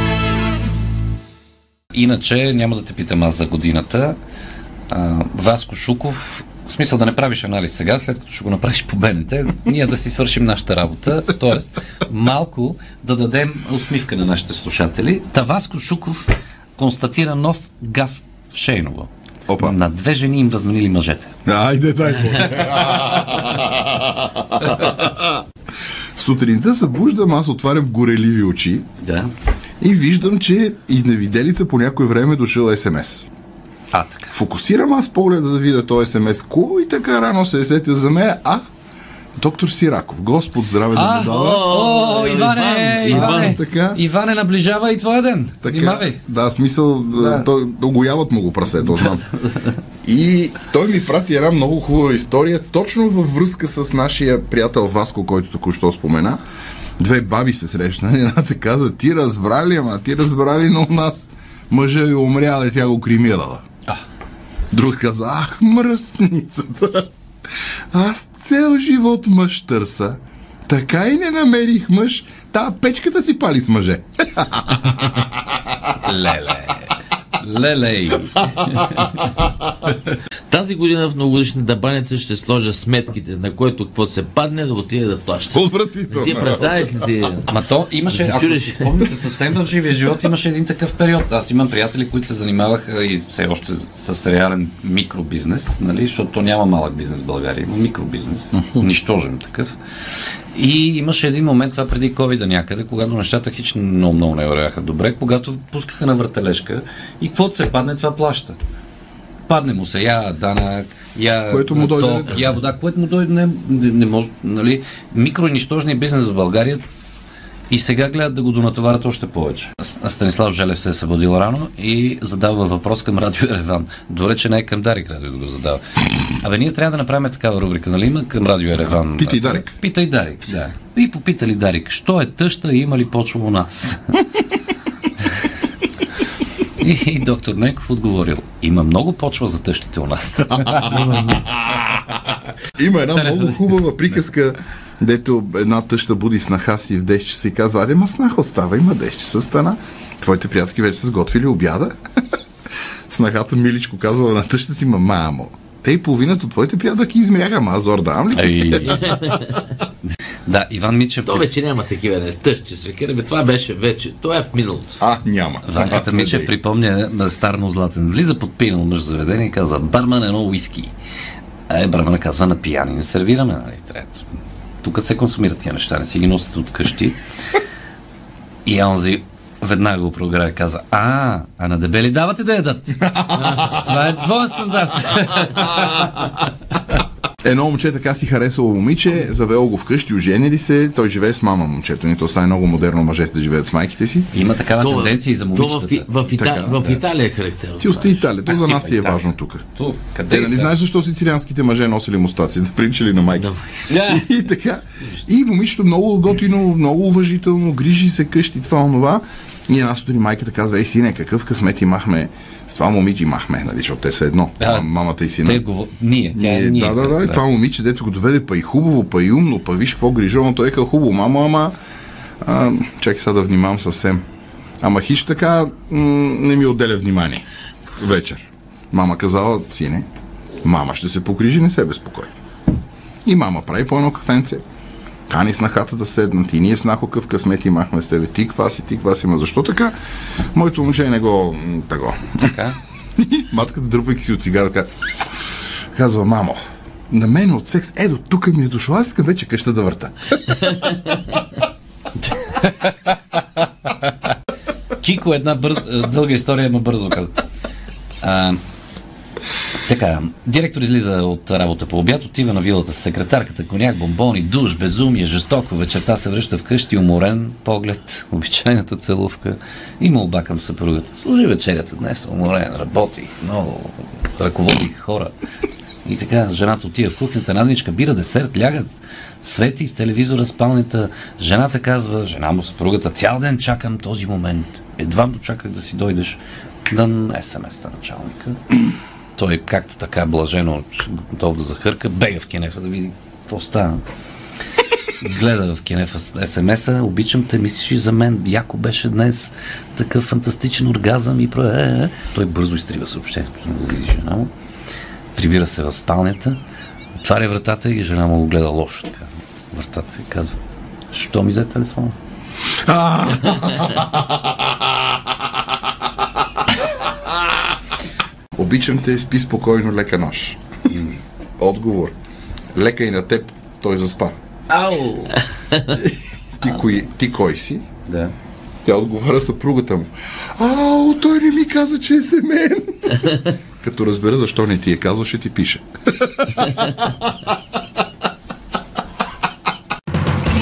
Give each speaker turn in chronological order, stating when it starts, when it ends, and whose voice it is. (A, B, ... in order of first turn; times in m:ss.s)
0:01.9-0:04.2 A
0:04.9-0:21.3 A
0:19.5-0:19.7 B
0:21.4-0:25.2 B
0:26.2-0:28.9 B
0:29.0-0:29.3 A
0:29.8-0:33.3 B
0:33.9-0:34.3 A
0:34.3-0:38.6 B
0:39.4-0:41.6 B
0:40.9-0:46.2 A
0:41.2-0:43.6 C
0:43.1-0:44.0 B
0:45.6-0:49.2 B
0:47.1-0:47.5 A
0:48.8-0:49.8 A
0:50.0-0:56.4 B
0:57.0-1:03.6 B
1:04.7-1:07.1 B
1:07.9-1:15.6 B
1:16.0-1:19.2 A
1:18.7-1:19.5 C
1:20.5-1:27.5 C
1:25.5-1:27.1 B
1:27.5-1:39.8 A
1:28.1-1:29.1 C
1:40.5-1:48.6 A
1:49.5-1:56.8 A
1:51.5-1:52.4 B
1:57.7-2:05.8 A
2:06.4-2:14.2 A
2:09.1-2:09.8 B
2:16.8-2:21.0 A
2:20.8-2:21.5 C
2:22.8-2:31.9 B
2:23.2-2:23.6 A
2:33.1-2:39.2 B
2:38.3-2:39.1 A
2:39.0-2:39.5 C
2:40.1-2:41.5 A
2:41.2-2:45.0 C
2:45.0-2:46.5 B
2:45.6-2:50.9 A
2:51.7-2:54.2 A
2:54.8-2:57.2 A
2:58.6-3:06.4 A
3:03.2-3:03.7 B
3:07.4-3:14.3 B
3:14.3-3:16.1 A
3:14.8-3:18.3 C
3:16.3-3:17.0 B
3:17.8-3:19.6 B
3:18.5-3:20.8 A
3:20.3-3:35.6 B
3:23.4-3:23.7 C
3:23.9-3:24.3 A
3:34.6-3:34.9 A
3:35.4-3:37.4 A
3:36.3-3:41.7 B
3:42.4-3:44.2 B
3:44.8-3:47.4 B
3:48.0-3:50.0 B
3:50.6-3:52.3 B
3:53.2-3:54.6 B
3:55.3-3:59.9 B
4:00.5-4:02.5 B
4:02.4-4:02.8 A
4:03.2-4:11.0 B
4:12.2-4:14.1 A
4:15.0-4:17.3 A
4:18.2-4:18.6 A
4:19.8-4:35.3 A
4:36.0-4:48.6 A
4:49.4-4:54.0 A
4:55.2-5:04.5 A
5:05.3-5:06.6 A
5:07.2-5:10.6 A
5:11.1-5:12.1 A
5:12.8-5:14.2 B
5:18.5-5:20.6 B
5:21.6-5:22.1 B
5:22.7-5:24.3 B
5:24.7-5:25.4 A
5:25.9-5:27.8 B
5:28.1-5:28.3 A
5:28.8-5:37.0 B